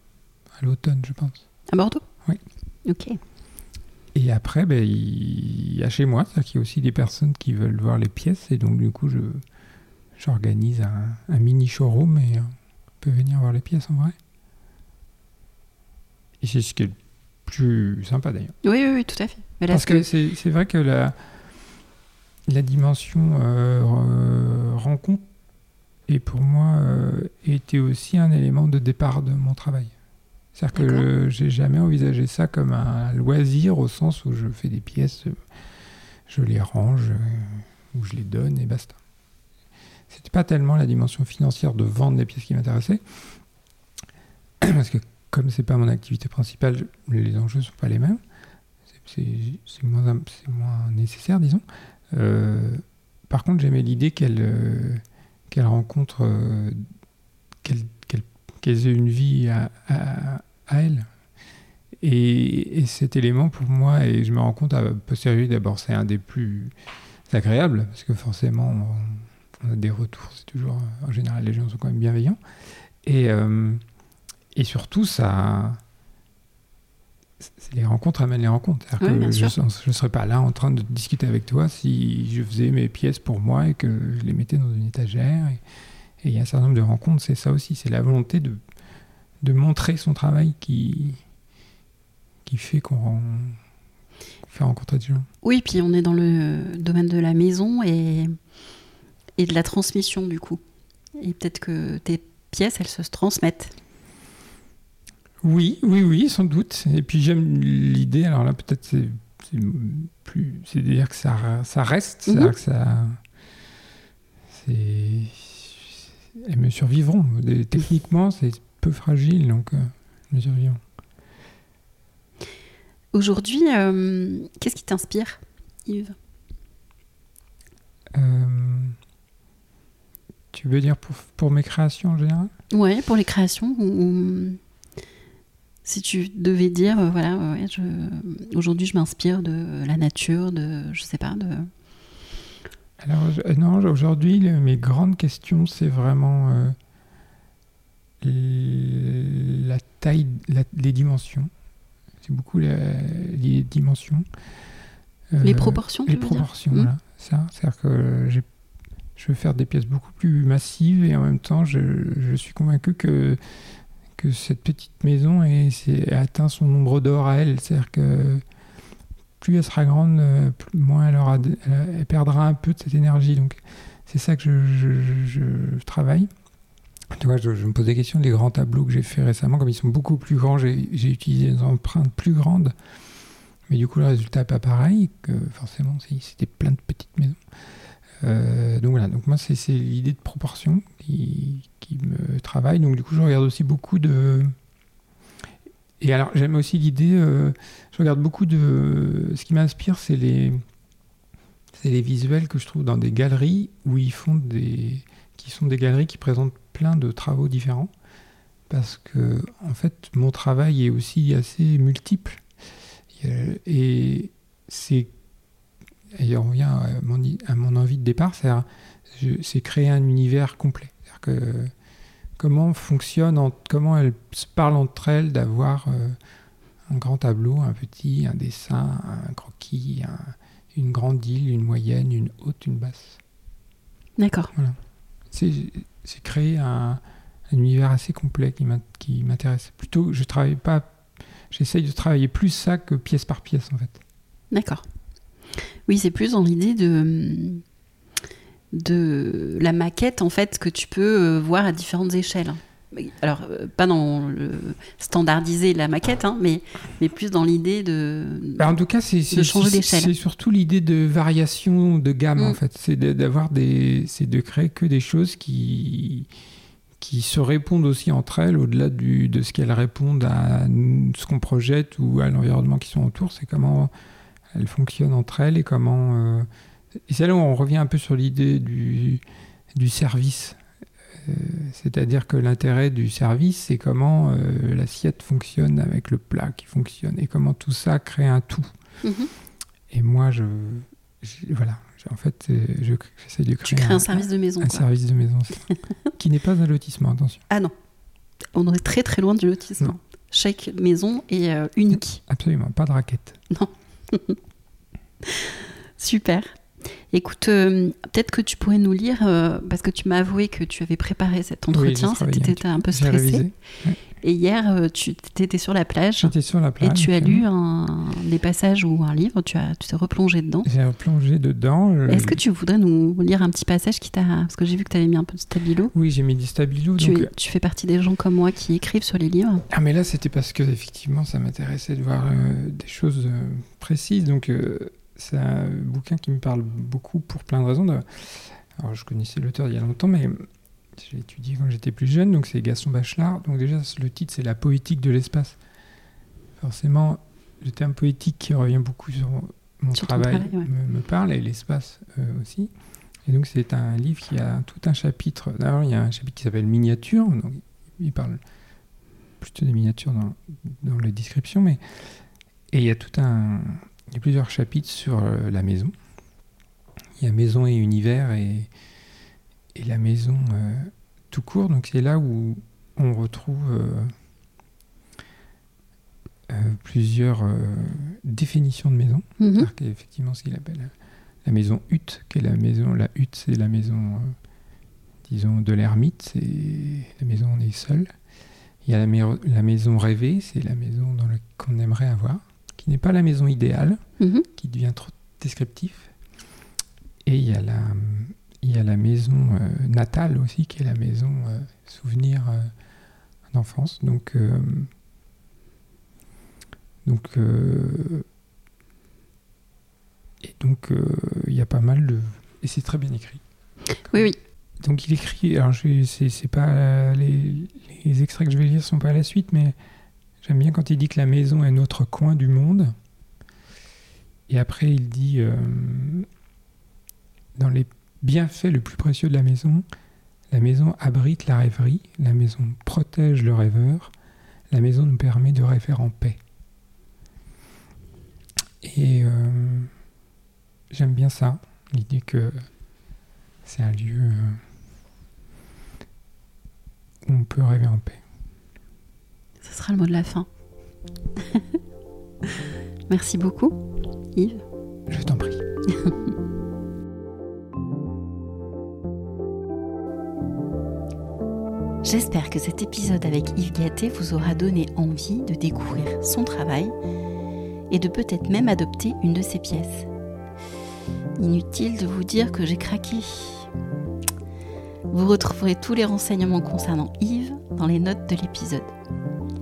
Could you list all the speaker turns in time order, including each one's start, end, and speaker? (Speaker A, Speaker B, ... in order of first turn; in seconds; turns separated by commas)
Speaker A: 0.6-1.4, Speaker B: 1.7-2.0, Speaker B: 2.9-3.2, Speaker A: 4.1-9.4, Speaker A: 10.2-14.2, Speaker A: 16.4-16.9, Speaker A: 17.5-18.5, Speaker B: 18.6-20.1, Speaker A: 19.7-21.1, Speaker A: 22.5-25.2, Speaker A: 26.1-29.9, Speaker A: 30.6-35.4, Speaker B: 30.7-31.1, Speaker A: 36.3-39.0, Speaker A: 40.1-43.0, Speaker A: 44.6-48.2, Speaker A: 49.0-56.8, Speaker A: 57.6-61.1, Speaker A: 62.0-66.7, Speaker A: 67.3-72.4, Speaker A: 73.0-73.8, Speaker A: 74.5-75.8, Speaker A: 77.4-85.6, Speaker B: 79.0-79.6, Speaker A: 86.2-88.6, Speaker A: 89.4-91.2, Speaker A: 92.5-93.6, Speaker A: 94.5-95.3, Speaker B: 95.4-98.3, Speaker B: 99.4-100.6, Speaker B: 101.2-103.7, Speaker A: 105.4-113.2, Speaker B: 112.3-112.5, Speaker A: 114.5-120.8, Speaker B: 123.1-126.2, Speaker A: 128.2-129.0, Speaker A: 130.5-132.5, Speaker B: 132.7-134.6, Speaker B: 135.8-141.7, Speaker A: 143.0-146.8, Speaker A: 148.2-151.5, Speaker A: 152.2-154.3, Speaker A: 155.3-158.5, Speaker B: 155.4-156.9, Speaker A: 159.2-163.4, Speaker A: 164.2-168.4, Speaker A: 169.4-176.3, Speaker A: 177.1-182.8, Speaker A: 183.7-187.4, Speaker A: 188.2-194.5, Speaker A: 196.0-200.6, Speaker A: 201.8-207.9, Speaker A: 208.7-212.4, Speaker A: 213.1-215.1, Speaker A: 216.2-221.7, Speaker A: 222.4-226.2, Speaker A: 226.9-233.2, Speaker B: 234.2-234.5, Speaker A: 235.3-241.0, Speaker A: 241.5-244.0, Speaker B: 244.5-244.8, Speaker B: 245.9-247.6, Speaker B: 248.7-258.7, Speaker A: 258.6-266.3, Speaker B: 259.3-260.1, Speaker A: 267.0-273.9, Speaker A: 274.5-276.5, Speaker A: 277.1-279.2, Speaker A: 279.7-280.6, Speaker A: 281.2-288.7, Speaker B: 289.0-289.3, Speaker A: 289.9-297.4, Speaker B: 293.6-294.9, Speaker B: 298.5-302.2, Speaker A: 302.2-303.4, Speaker B: 303.5-304.4, Speaker B: 305.2-306.6, Speaker B: 307.1-313.4, Speaker A: 311.7-314.0, Speaker B: 314.2-320.7, Speaker A: 316.2-317.4, Speaker A: 320.6-322.4, Speaker B: 322.1-325.9, Speaker A: 325.9-327.3, Speaker B: 327.0-329.6, Speaker A: 329.7-345.6, Speaker A: 346.6-352.7, Speaker B: 349.9-350.7, Speaker A: 353.3-358.4, Speaker A: 359.4-361.8, Speaker A: 362.7-365.9, Speaker A: 367.2-368.7, Speaker A: 369.8-374.1, Speaker A: 376.5-380.9, Speaker B: 379.4-379.7, Speaker A: 381.4-384.4, Speaker A: 385.2-388.1, Speaker A: 388.8-396.1, Speaker B: 394.2-394.5, Speaker A: 397.3-402.7, Speaker A: 403.5-404.9, Speaker A: 407.0-408.3, Speaker A: 410.4-413.4, Speaker B: 414.0-414.4, Speaker A: 414.8-419.8, Speaker A: 420.4-422.9, Speaker A: 424.5-426.3, Speaker A: 427.6-429.8, Speaker A: 430.5-434.1, Speaker A: 434.7-436.4, Speaker A: 438.8-439.9, Speaker A: 440.9-442.7, Speaker A: 443.6-444.6, Speaker A: 447.2-448.2, Speaker B: 449.6-450.5, Speaker B: 451.4-451.7, Speaker B: 453.1-454.6, Speaker A: 455.1-455.6, Speaker B: 462.0-466.9, Speaker B: 467.9-470.1, Speaker B: 471.4-473.7, Speaker B: 475.1-478.9